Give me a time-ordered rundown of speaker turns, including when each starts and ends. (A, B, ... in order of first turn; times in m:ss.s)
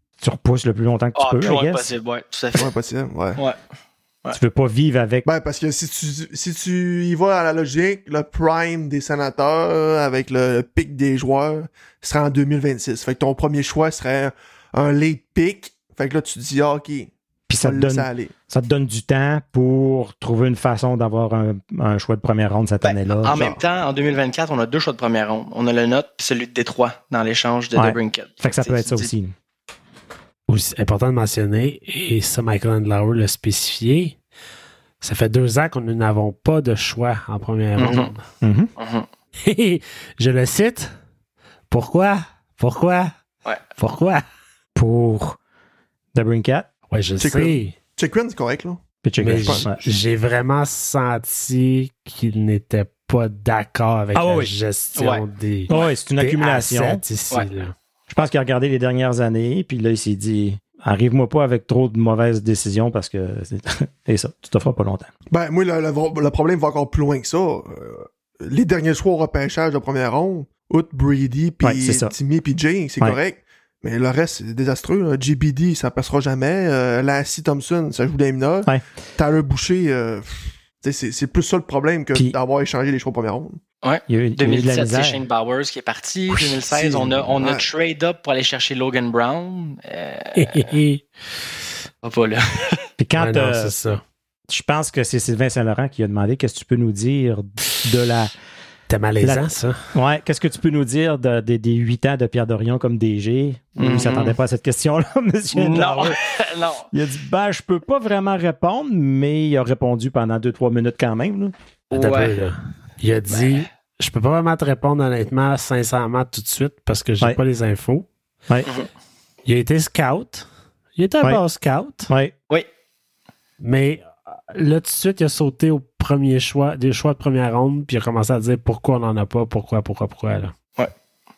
0:00.2-0:01.9 A
0:01.2-0:02.7 B
0:02.5-0:03.4 C
0:04.3-0:05.3 A
0:05.2-0:18.3 C
0:17.5-0:23.4 A
0:22.8-0:29.1 B
0:23.3-0:23.6 C
0:27.7-0:29.3 A
0:30.5-0:34.2 D
0:35.0-0:38.2 D
0:37.8-0:38.1 B
0:38.4-0:38.7 A
0:38.8-0:39.1 B
0:39.4-0:40.9 D
0:41.7-0:43.1 D
0:43.8-0:44.2 D
0:44.7-0:45.4 A
0:46.1-0:46.7 A
0:46.9-0:47.7 D
0:47.2-0:48.8 C
0:49.0-0:49.8 A
0:49.2-0:57.7 D
0:49.3-0:49.7 C
0:54.1-0:54.5 A
0:55.0-0:55.9 B
0:55.7-0:57.0 A
0:58.1-1:05.1 A
1:05.3-1:23.6 C
1:11.6-1:12.1 A
1:23.8-1:30.7 B
1:24.1-1:25.2 A
1:26.3-1:27.6 C
1:30.3-1:31.0 D
1:32.0-1:32.8 B
1:33.0-1:33.7 A
1:33.2-1:34.0 D
1:34.5-1:38.3 A
1:38.9-1:39.8 D
1:39.2-1:46.2 A
1:43.8-1:44.4 B
1:45.5-1:46.9 B
1:46.9-1:51.5 A
1:51.9-1:52.4 B
1:51.9-1:58.1 D
1:53.3-1:53.6 B
1:59.4-2:02.1 D
2:02.1-2:02.3 A
2:03.6-2:10.5 D